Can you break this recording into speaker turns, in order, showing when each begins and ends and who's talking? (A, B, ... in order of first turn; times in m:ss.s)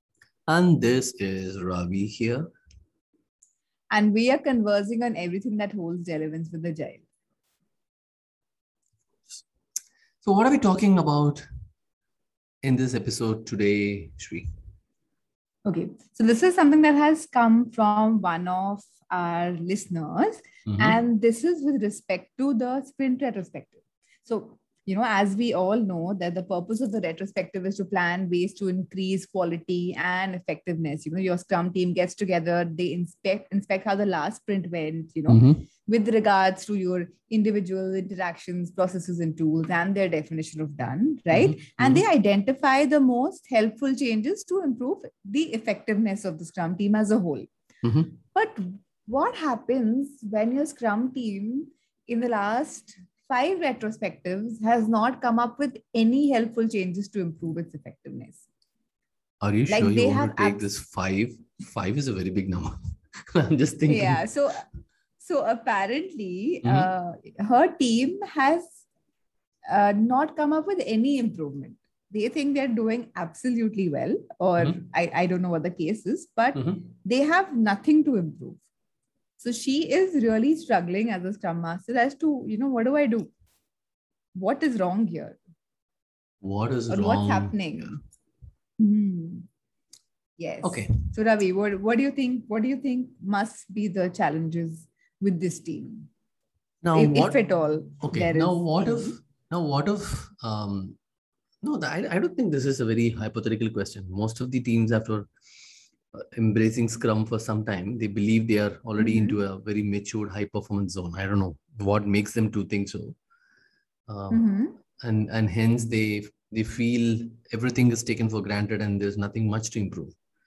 0:00.5-0:02.5 A
0:03.9-0:07.0 B
0:10.2-0:11.5 A
0:12.6-0:14.5 A
0:15.6-0:47.5 B
0:20.7-0:21.0 A
0:35.3-0:35.6 A
0:41.3-0:42.0 A
0:47.8-0:48.2 A
0:48.3-0:58.4 B
0:59.4-1:04.2 A
0:59.7-1:00.7 B
1:03.9-1:04.7 B
1:05.2-1:08.8 B
1:06.6-1:06.9 A
1:09.7-1:18.6 B
1:19.4-1:23.3 B
1:24.4-1:25.4 B
1:26.4-1:28.0 A
1:26.9-1:28.0 B
1:28.8-1:29.5 B
1:30.4-1:36.1 B
1:30.6-1:31.0 A
1:36.8-1:37.4 A
1:36.9-1:39.2 B
1:38.0-1:41.0 A
1:41.6-1:45.3 A
1:46.1-1:53.2 A
1:49.0-1:49.4 B
1:54.1-2:00.1 A
1:54.3-1:54.8 B